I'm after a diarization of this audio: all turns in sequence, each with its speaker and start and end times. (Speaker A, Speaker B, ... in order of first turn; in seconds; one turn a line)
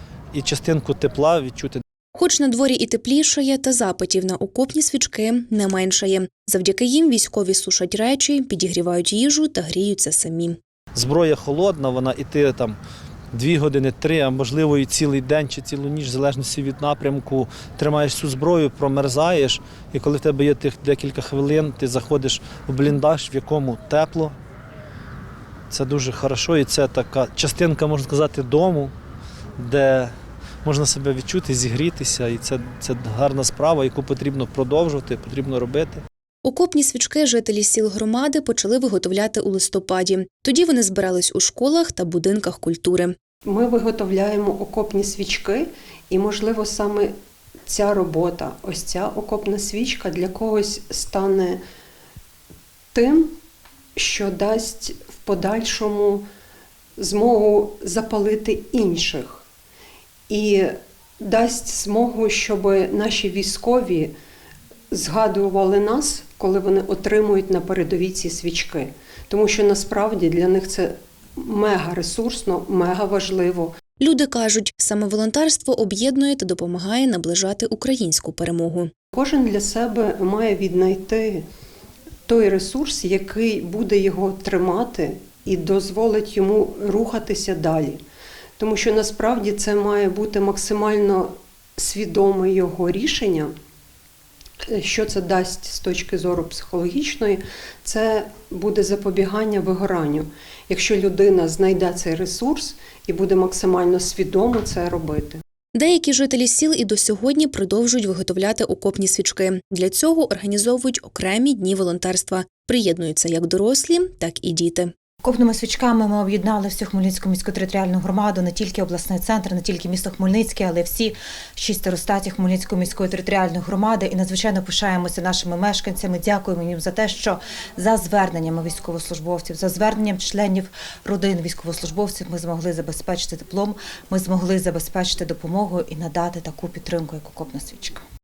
Speaker A: 0.3-1.8
Speaker B: 2.1-10.6
Speaker A: 10.9-12.8
Speaker A: 13.3-24.3
Speaker A: 25.7-28.9
Speaker A: 29.6-30.1
Speaker A: 30.6-36.0
Speaker B: 36.4-43.1
Speaker C: 43.4-47.1
Speaker C: 47.7-51.6
Speaker C: 52.9-53.4
Speaker C: 54.0-56.3
Speaker C: 57.0-59.5
Speaker C: 60.3-64.1
Speaker C: 64.9-73.7
Speaker B: 74.0-78.9
Speaker C: 79.1-81.5
Speaker C: 82.3-88.0
Speaker C: 88.6-93.5
Speaker C: 94.7-105.4
Speaker B: 105.7-114.9
Speaker D: 115.2-138.0